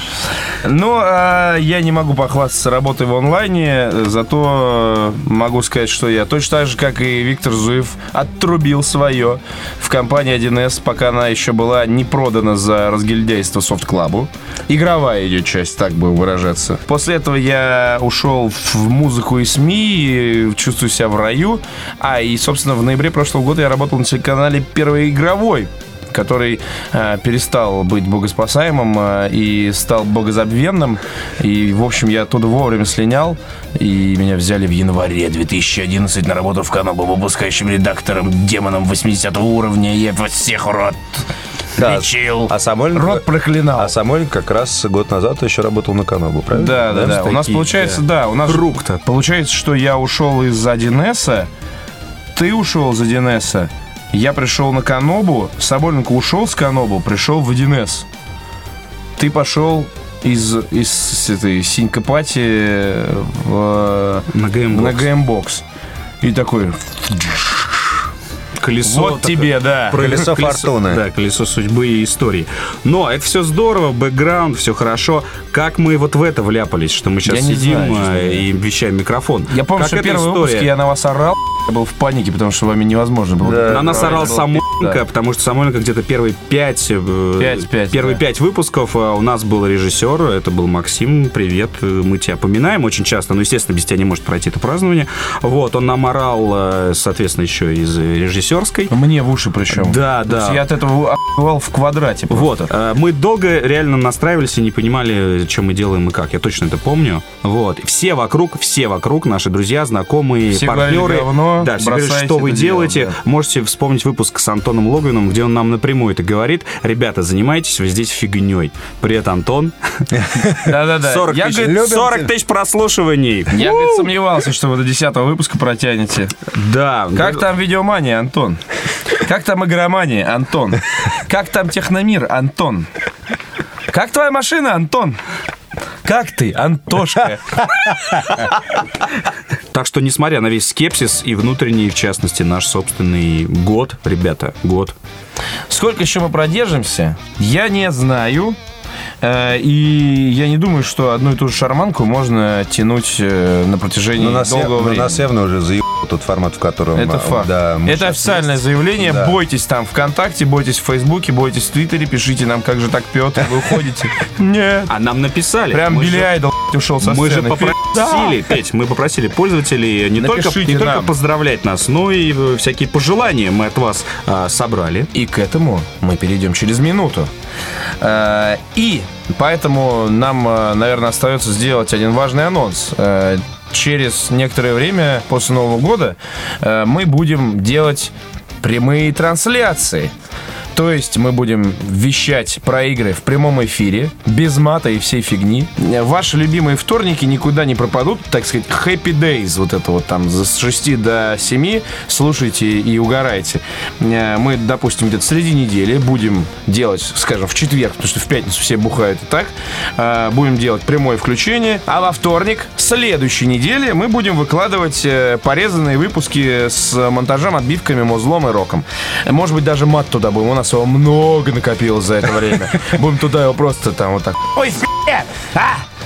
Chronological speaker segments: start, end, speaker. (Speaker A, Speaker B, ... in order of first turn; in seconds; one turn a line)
Speaker A: 0.6-41.2
Speaker A: 41.8-43.9
Speaker B: 41.8-47.1
Speaker A: 46.5-51.5
Speaker C: 46.9-49.0
Speaker A: 52.4-58.1
Speaker A: 59.2-65.6
Speaker C: 64.3-65.1
Speaker A: 66.2-67.7
Speaker C: 68.6-80.7
Speaker A: 68.8-70.0
Speaker B: 70.0-71.0
Speaker A: 77.2-78.4
Speaker A: 79.5-85.0
Speaker C: 83.5-98.9
Speaker A: 87.4-88.2
Speaker A: 98.9-102.7
Speaker C: 99.7-100.7
Speaker C: 102.3-119.8
Speaker A: 110.5-113.1
Speaker B: 120.1-120.5
Speaker C: 120.4-124.1
Speaker A: 120.6-121.9
Speaker B: 121.6-122.3
Speaker A: 123.5-126.3
Speaker C: 126.5-127.5
Speaker A: 127.2-128.6
Speaker A: 129.2-132.9
Speaker A: 133.9-135.2
Speaker A: 136.0-137.7
Speaker C: 139.7-145.0
Speaker A: 145.7-148.6
Speaker A: 149.2-155.2
Speaker B: 154.2-159.4
Speaker A: 156.9-164.9
Speaker C: 164.9-166.3
Speaker A: 165.7-168.4
Speaker C: 167.0-175.1
Speaker A: 170.2-171.1
Speaker A: 175.1-177.3
Speaker A: 178.0-190.1
Speaker A: 190.7-225.8